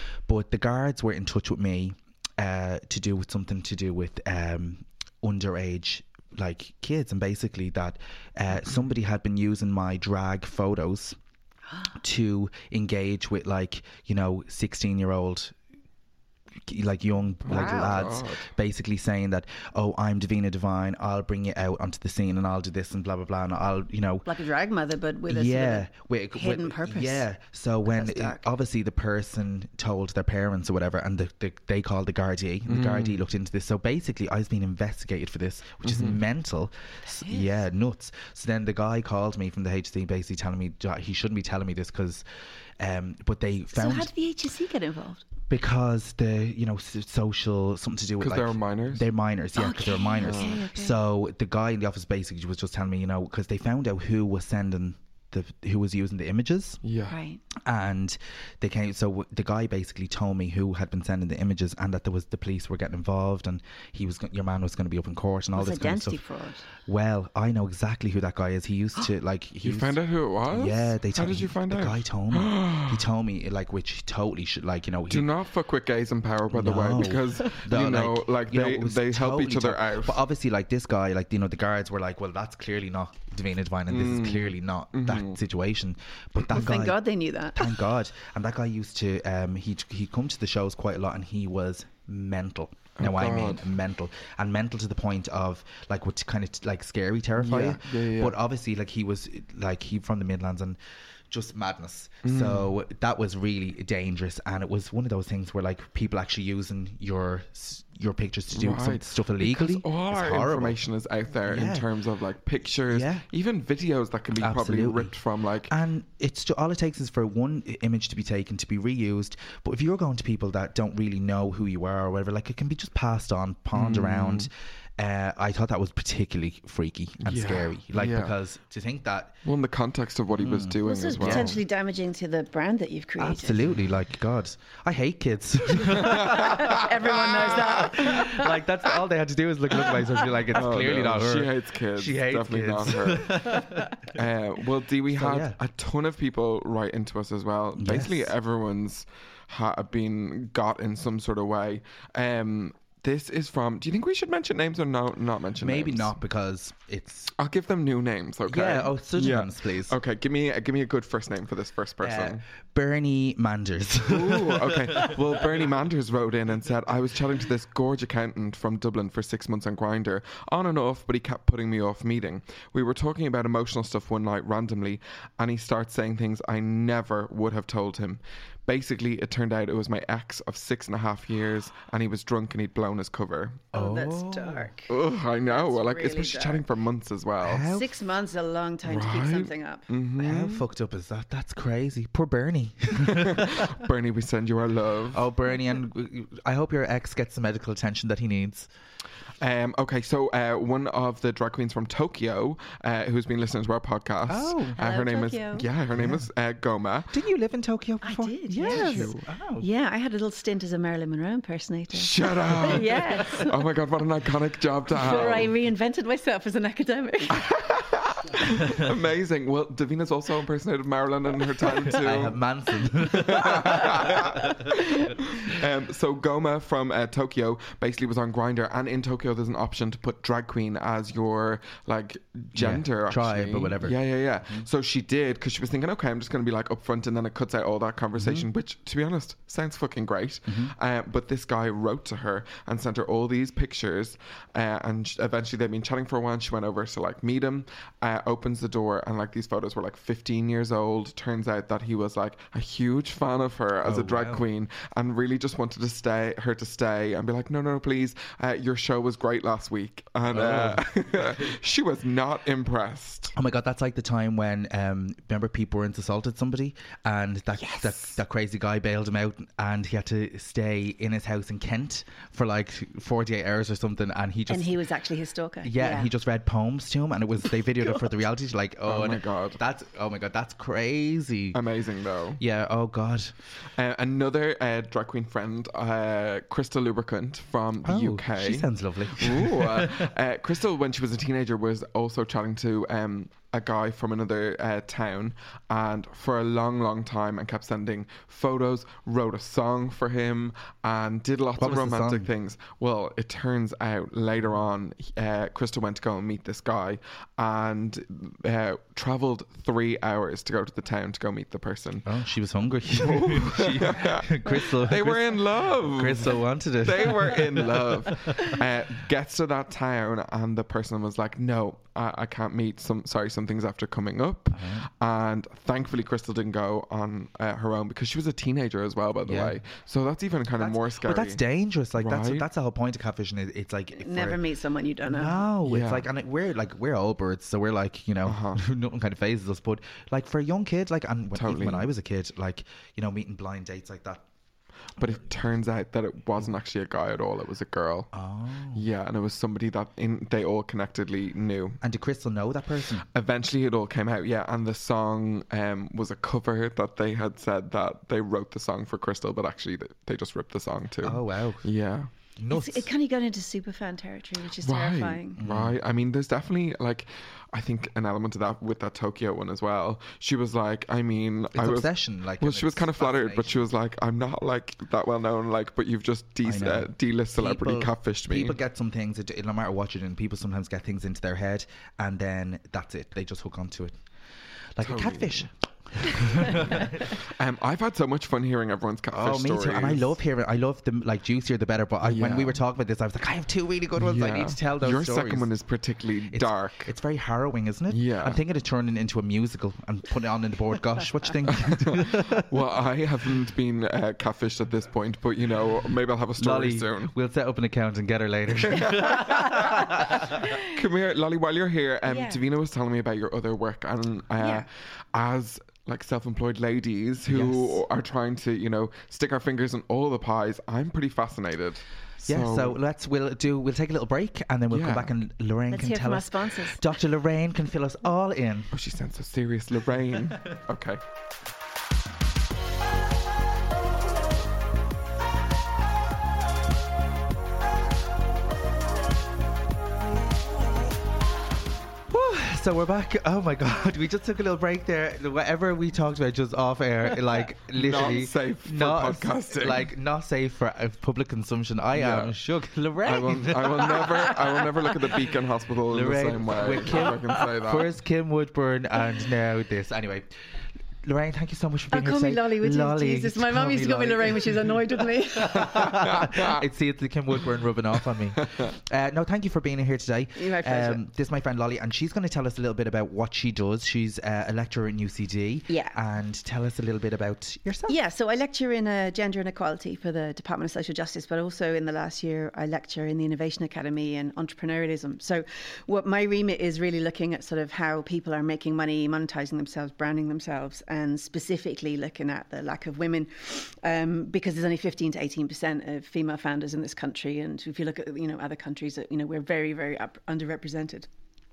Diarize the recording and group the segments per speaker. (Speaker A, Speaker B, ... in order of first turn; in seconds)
Speaker A: 0.3-11.2, 12.0-15.5, 16.7-24.3, 25.3-42.2, 42.8-44.1, 45.5-56.8, 57.6-66.2, 66.8-75.3, 76.5-100.8, 101.3-110.8, 111.5-111.9, 112.9-113.2, 114.4-115.1, 115.7-129.3, 130.3-131.6, 133.2-143.9, 145.1-145.6, 147.8-148.3, 155.6-157.3, 158.4-159.9, 162.0-165.1, 183.7-184.7, 187.4-187.9, 190.2-193.7, 195.1-198.7, 204.3-204.8, 205.9-206.2, 207.1-209.7, 212.7-213.0, 221.8-224.7, 232.5-234.7, 238.1-238.5, 240.5-240.7, 253.8-254.4, 260.3-261.3, 263.3-274.9, 275.6-281.6, 282.4-283.3, 287.8-290.1, 301.6-302.3, 312.0-318.5, 324.5-324.9, 329.2-329.6, 330.6-334.4, 335.0-344.2, 348.1-348.8, 351.8-353.1, 361.0-361.6, 362.4-362.9, 365.4-365.8, 371.5-373.6, 376.4-383.9, 384.8-387.1, 389.1-395.5, 396.3-402.4, 406.4-410.2, 417.3-417.8, 422.2-428.7, 442.1-455.0, 455.9-460.2, 461.0-477.9
Speaker B: 17.4-18.5, 32.7-33.2, 35.8-36.2, 48.2-49.1, 50.2-50.6, 56.8-57.2, 69.6-73.0, 75.1-80.2, 83.9-85.4, 93.0-93.7, 97.3-98.4, 102.2-102.7, 108.5-115.7, 123.7-124.5, 127.2-128.3, 129.4-131.6, 135.9-138.3, 140.5-156.2, 157.3-162.4, 164.0-183.7, 184.9-187.7, 188.8-190.6, 193.0-195.3, 199.4-207.2, 208.6-209.2, 211.9-215.5, 217.3-222.4, 222.9-263.3, 267.6-268.0, 278.8-279.6, 281.5-282.4, 283.8-312.1, 312.9-331.4, 332.0-332.4, 335.6-336.1, 338.2-338.6, 341.3-341.9, 345.0-348.1, 348.7-351.8, 353.1-362.1, 364.6-378.6, 384.8-385.5, 386.3-390.2, 392.0-392.6, 393.9-396.9, 397.9-398.4, 401.4-407.1, 408.6-422.8, 424.7-425.1, 428.7-431.0, 447.6-449.9, 451.9-452.3, 453.0-457.9, 465.8-466.6
Speaker C: 24.2-27.3, 27.9-28.5, 37.0-37.6, 43.7-45.2, 49.5-51.0, 57.1-57.4, 65.5-66.7, 86.5-87.7, 130.8-133.7, 136.3-138.5, 183.7-186.6, 187.6-189.8, 204.7-205.7, 208.0-213.6, 214.9-217.4, 274.5-276.1, 334.0-335.4, 362.5-365.4, 408.8-409.8, 410.3-410.7, 412.0-412.4, 414.4-414.7, 425.7-426.9, 453.9-454.6, 461.9-465.9, 470.4-471.0, 475.7-475.9, 477.9-501.1